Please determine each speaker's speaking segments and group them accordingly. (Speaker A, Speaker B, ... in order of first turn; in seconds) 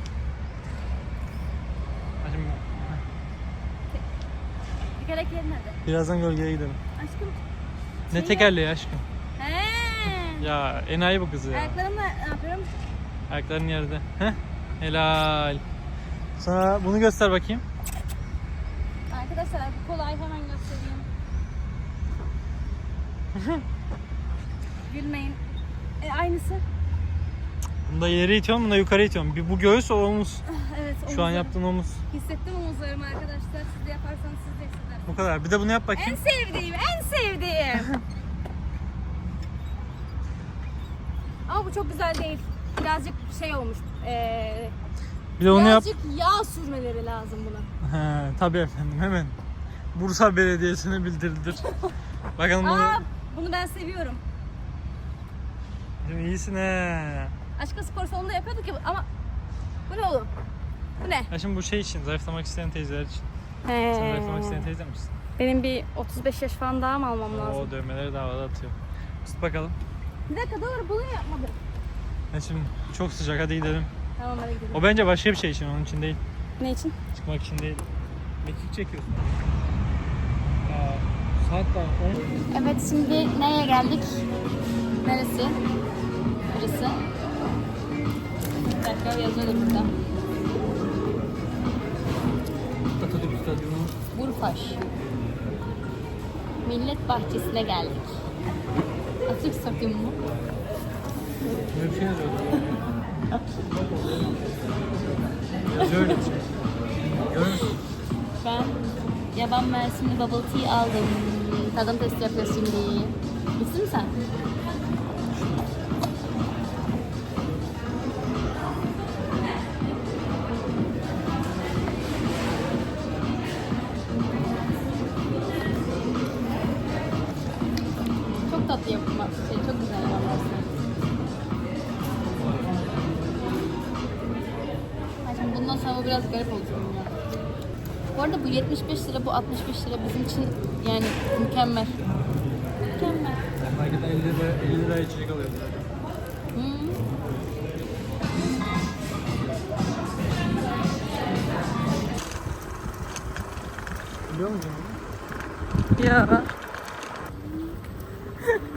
Speaker A: 2.2-3.0, 5.9-6.8, 8.1-9.1, 10.4-11.8, 13.3-15.6, 16.4-17.6, 23.4-23.6, 27.9-30.4, 31.1-32.0, 35.1-36.2, 45.4-45.9, 47.8-49.4, 50.0-51.6, 52.4-53.0, 56.0-57.3, 61.3-63.3, 63.9-65.1, 67.3-69.8, 72.3-73.9, 74.7-76.2, 77.1-77.9, 78.4-79.3, 80.6-82.3, 93.0-94.0, 101.7-102.7, 105.7-106.4, 107.0-107.8, 115.3-115.8, 143.6-145.9, 154.3-155.0
Speaker B: 5.0-5.8, 7.0-7.4, 8.1-8.5, 9.4-10.5, 11.5-12.7, 19.1-21.1, 24.9-25.4, 26.0-26.6, 30.5-31.6, 32.1-35.2, 35.9-38.0, 41.5-44.8, 45.4-47.7, 51.6-51.9, 52.6-54.2, 57.6-59.1, 59.9-60.3, 61.0-61.3, 63.6-64.7, 65.4-67.7, 70.3-71.5, 74.2-74.8, 76.6-77.0, 82.5-84.2, 85.0-85.6, 86.5-87.0, 88.8-89.9, 94.1-94.8, 96.7-98.1, 99.3-100.2, 105.8-106.3, 108.4-108.8, 109.3-114.2, 128.5-130.7, 135.2-137.1, 138.2-142.0, 143.0-143.4, 146.5-147.0, 156.0-156.5